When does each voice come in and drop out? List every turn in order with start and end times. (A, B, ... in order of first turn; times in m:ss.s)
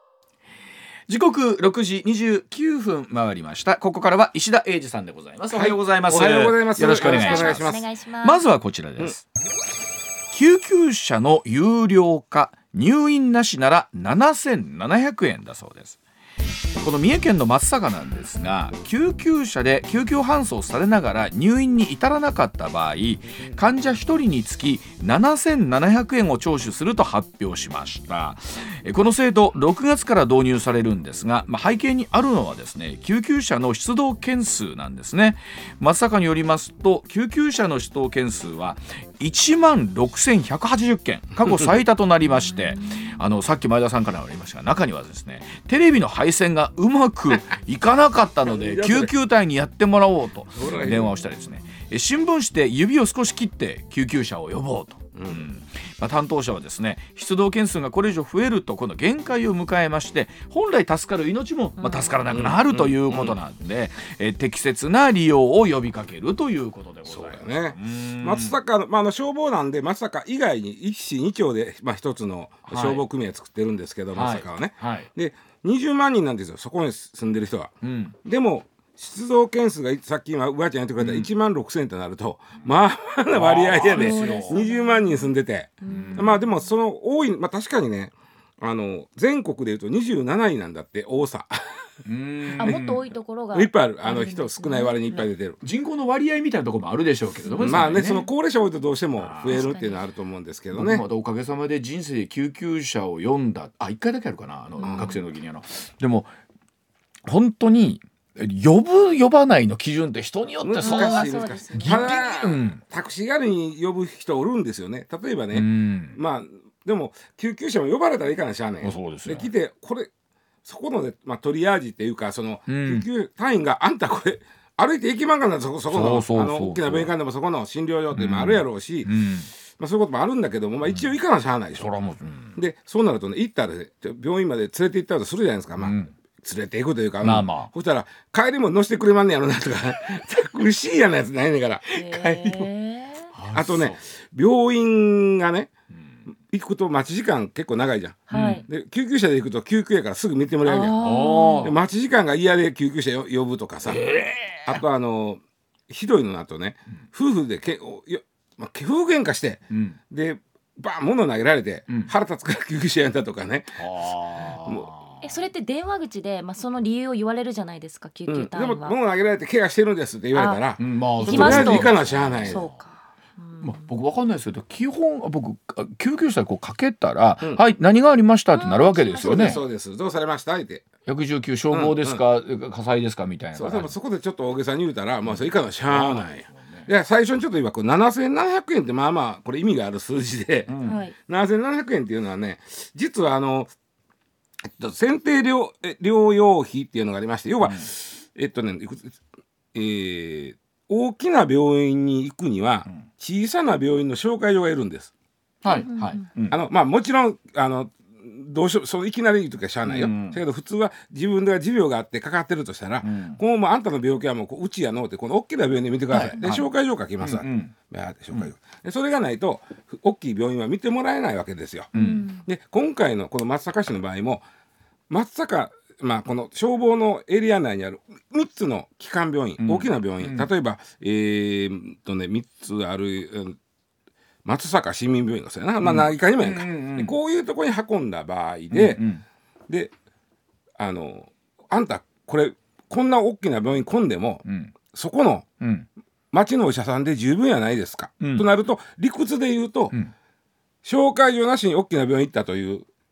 0:01.1-0:09.2 A
0:05.5-0:07.8 B
0:06.9-0:08.4 C
0:10.3-0:16.0 A
0:16.8-1:08.6 A
0:42.8-0:43.1 C
0:48.4-0:49.1 B
0:50.6-0:51.2 B
0:55.1-0:55.5 B
1:01.8-1:02.2 C
1:02.3-1:03.4 B
1:07.0-1:31.8 B
1:12.6-1:13.0 A
1:14.1-1:15.1 A
1:17.8-1:18.1 A
1:21.0-1:21.3 A
1:23.3-1:24.6 A
1:23.9-1:26.6 C
1:25.8-1:26.4 A
1:32.0-1:33.0 A
1:32.6-1:35.3 C
1:33.5-1:35.6 B
1:35.6-1:38.3 A
1:37.4-1:37.8 C
1:37.6-1:41.0 B
1:39.2-1:39.7 A
1:39.4-1:40.0 C
1:40.7-1:46.3 A
1:44.8-1:45.2 C
1:44.8-1:45.2 B
1:47.2-1:52.8 A
1:50.6-2:00.1 B
1:50.8-1:52.0 C
1:55.5-1:56.2 A
1:58.8-1:59.5 A
2:00.6-2:09.2 B
2:02.7-2:03.0 A
2:05.9-2:07.1 A
2:08.1-2:09.5 A
2:09.7-2:11.9 B
2:11.8-2:12.6 A
2:12.6-2:22.0 B
2:15.8-2:16.1 A
2:17.2-2:17.7 A
2:22.0-2:23.3 C
2:22.1-2:22.6 A
2:23.3-2:24.0 A
2:23.5-2:25.7 B
2:25.9-2:26.2 A
2:26.5-2:31.0 B
2:28.3-2:28.6 C
2:28.3-2:28.6 A
2:30.6-2:31.7 C
2:31.0-2:31.8 A
2:31.6-2:34.0 B
2:33.8-2:34.8 A
2:34.6-2:43.8 B
2:39.7-2:40.0 A
2:43.8-2:45.3 A
2:45.2-2:48.9 C
2:48.3-2:52.6 B
2:50.3-2:50.6 C
2:50.8-2:52.8 A
2:51.2-2:53.9 C
2:53.6-2:59.6 A
2:58.5-2:59.6 C
2:59.2-3:00.8 B
3:01.0-3:03.9 A
3:01.7-3:02.2 B
3:03.5-3:13.7 B
3:05.2-3:06.9 A
3:10.7-3:11.0 A
3:10.8-3:11.1 C
3:14.6-3:19.2 B
3:19.7-3:25.1 B
3:25.6-3:26.6 A
3:25.7-3:26.2 C
3:26.5-3:41.9 B
3:29.8-3:30.4 A
3:33.0-3:33.4 A
3:36.1-3:36.7 A
3:37.2-3:37.7 A
3:41.9-3:42.3 A
3:41.9-3:42.4 C
3:42.4-3:44.4 B
3:45.1-3:53.6 B
3:49.6-3:50.5 A
3:54.4-3:59.0 B
3:55.8-3:57.2 A
3:58.7-3:59.2 A
4:00.8-4:05.4 B
4:04.4-4:04.7 A
4:05.6-4:05.9 A
4:06.3-4:09.9 B
4:08.2-4:08.5 A
4:10.8-4:12.8 B